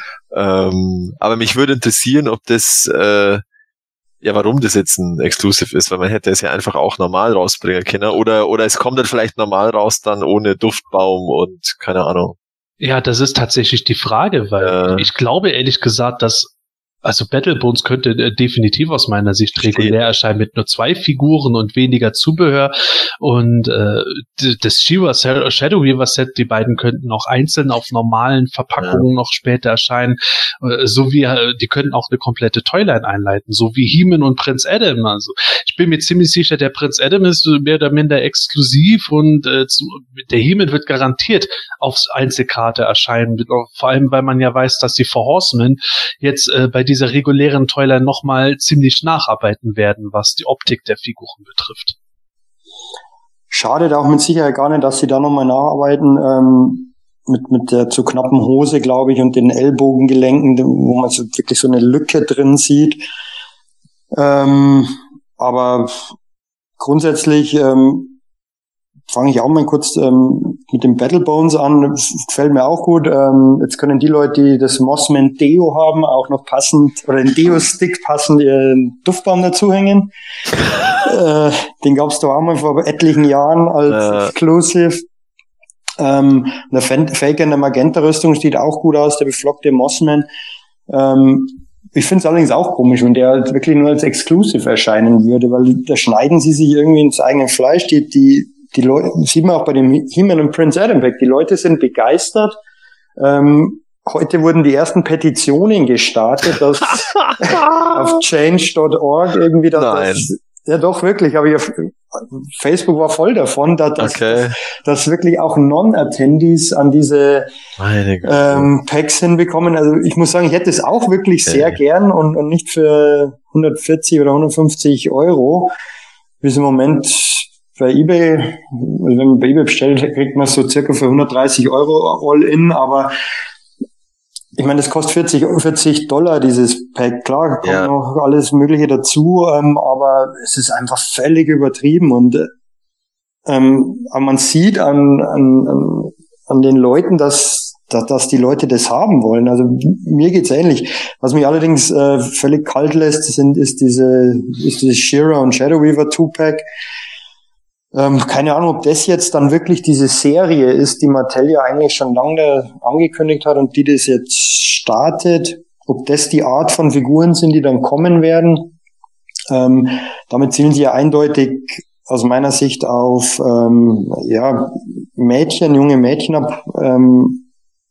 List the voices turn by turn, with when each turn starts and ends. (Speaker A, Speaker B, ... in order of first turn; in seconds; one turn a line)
Speaker A: 0.3-3.4
Speaker A: 4.2-12.3
Speaker B: 12.8-16.5
Speaker A: 14.6-15.1
Speaker B: 17.0-51.9
Speaker A: 19.6-19.9
Speaker A: 28.8-29.1
Speaker C: 53.5-63.0
Speaker C: 64.1-66.0
Speaker C: 66.8-68.1
Speaker C: 69.1-80.1
Speaker C: 80.9-85.0
Speaker A: 83.9-84.3
Speaker C: 86.0-90.3
Speaker C: 90.9-102.6
Speaker C: 103.2-117.5
Speaker A: 106.8-108.0
Speaker A: 109.7-110.3
Speaker A: 114.0-114.6
Speaker A: 117.8-118.7
Speaker C: 118.2-125.7
Speaker A: 121.5-121.8
Speaker C: 126.4-133.1
Speaker C: 134.6-142.5
Speaker A: 137.6-137.9
Speaker C: 143.4-156.6
Speaker C: 157.9-168.7
Speaker C: 169.5-177.4